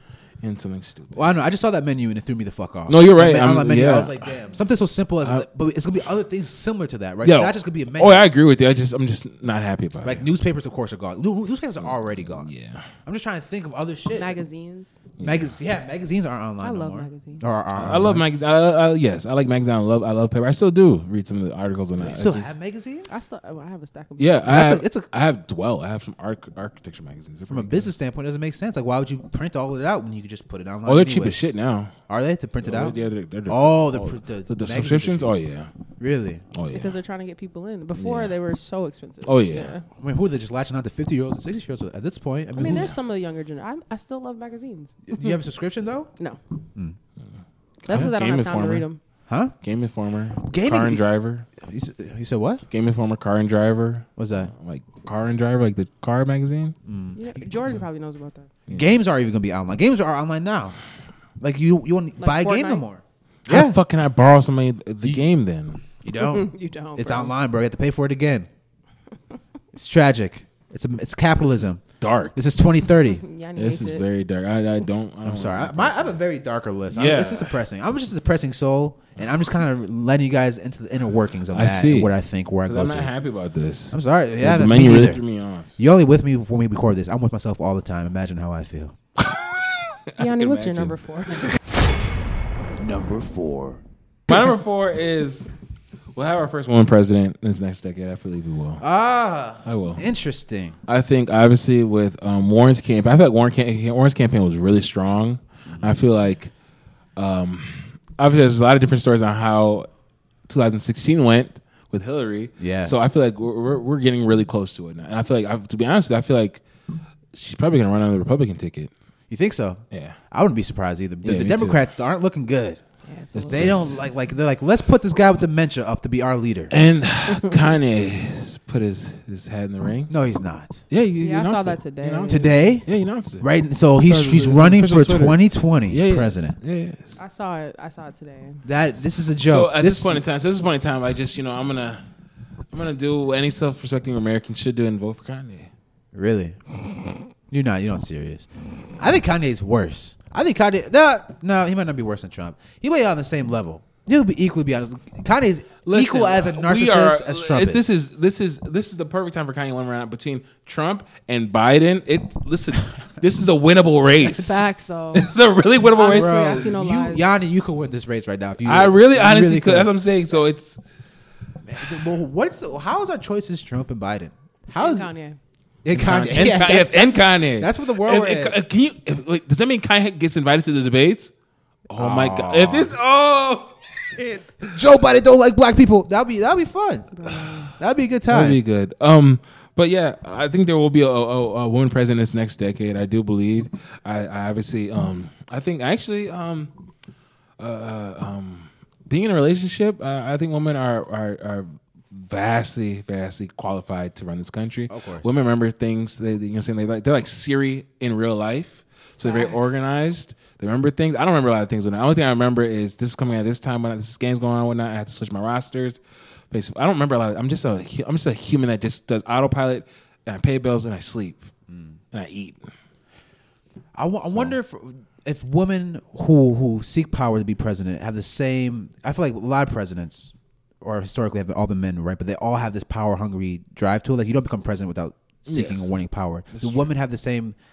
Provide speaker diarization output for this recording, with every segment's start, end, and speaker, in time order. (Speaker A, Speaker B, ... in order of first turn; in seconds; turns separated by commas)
Speaker A: 0.4-1.3, Speaker B: 1.1-8.3, Speaker A: 2.9-4.3, Speaker A: 7.2-10.3, Speaker B: 10.0-12.5, Speaker A: 11.8-12.9, Speaker B: 13.0-14.4, Speaker C: 14.1-15.0, Speaker A: 15.2-15.5, Speaker B: 15.2-18.2, Speaker C: 16.6-17.4, Speaker A: 17.7-22.5, Speaker B: 22.0-23.1, Speaker C: 23.1-24.5, Speaker A: 24.2-27.9, Speaker B: 24.4-25.1, Speaker B: 27.5-31.5, Speaker A: 30.9-31.9, Speaker B: 32.1-33.0, Speaker A: 32.6-35.7, Speaker B: 33.5-35.4, Speaker B: 36.0-36.4, Speaker A: 36.5-36.9, Speaker C: 36.7-39.8, Speaker A: 38.0-38.3, Speaker A: 39.2-39.7, Speaker B: 40.0-42.9, Speaker C: 42.5-45.4, Speaker A: 42.6-42.9, Speaker B: 45.1-46.1, Speaker C: 47.9-49.0, Speaker A: 47.9-48.9, Speaker B: 49.3-49.5, Speaker A: 49.6-51.5, Speaker B: 50.4-51.0, Speaker B: 51.6-52.6, Speaker A: 52.7-56.7, Speaker B: 54.2-54.5, Speaker B: 56.9-57.5, Speaker C: 57.1-58.5, Speaker A: 58.7-58.9, Speaker B: 58.7-60.8, Speaker B: 61.4-63.8, Speaker C: 62.2-62.8, Speaker A: 63.5-65.8, Speaker B: 66.0-68.5, Speaker C: 66.2-67.3, Speaker B: 69.7-71.8, Speaker A: 72.0-72.3, Speaker B: 72.3-73.2, Speaker C: 73.1-74.0, Speaker A: 73.5-76.2, Speaker B: 75.2-83.1, Speaker A: 76.9-77.5, Speaker A: 81.5-82.1, Speaker A: 82.6-85.7, Speaker B: 83.9-85.2, Speaker B: 85.8-89.0, Speaker A: 90.1-91.5, Speaker C: 90.2-91.5, Speaker B: 92.8-94.4, Speaker A: 94.3-95.5, Speaker A: 96.1-98.8, Speaker B: 98.8-100.8, Speaker A: 99.6-100.0, Speaker A: 100.9-106.5, Speaker B: 105.7-106.0, Speaker A: 107.2-109.9, Speaker A: 110.5-116.6, Speaker B: 112.6-112.9, Speaker A: 117.3-118.9, Speaker B: 119.3-122.8, Speaker A: 119.9-120.2, Speaker A: 121.2-121.8, Speaker C: 123.1-123.8, Speaker A: 123.3-124.0, Speaker B: 123.5-126.7, Speaker A: 126.7-130.1, Speaker B: 130.1-130.8, Speaker A: 130.9-133.5, Speaker C: 131.2-132.5, Speaker B: 132.3-132.9, Speaker B: 133.4-136.6, Speaker A: 134.0-137.2, Speaker C: 137.2-138.6, Speaker B: 138.6-140.2, Speaker A: 139.4-142.0, Speaker A: 142.7-145.7, Speaker B: 146.1-146.6, Speaker B: 147.5-157.8, Speaker A: 155.8-166.7, Speaker C: 164.2-165.2, Speaker C: 166.0-167.2, Speaker B: 166.0-169.9, Speaker A: 168.6-170.8, Speaker B: 171.6-175.1, Speaker C: 174.8-175.4, Speaker B: 175.8-178.6, Speaker A: 175.9-181.3, Speaker A: 181.9-184.8, Speaker B: 181.9-182.9, Speaker B: 184.7-187.1, Speaker C: 187.1-187.7, Speaker B: 187.8-188.6, Speaker A: 188.3-196.7, Speaker A: 197.6-216.0, Speaker B: 204.9-205.3, Speaker C: 209.2-209.8, Speaker A: 216.5-221.5, Speaker B: 221.7-221.9, Speaker A: 222.1-222.6, Speaker B: 223.9-237.6, Speaker A: 224.2-224.5, Speaker A: 235.5-235.9, Speaker A: 236.5-236.8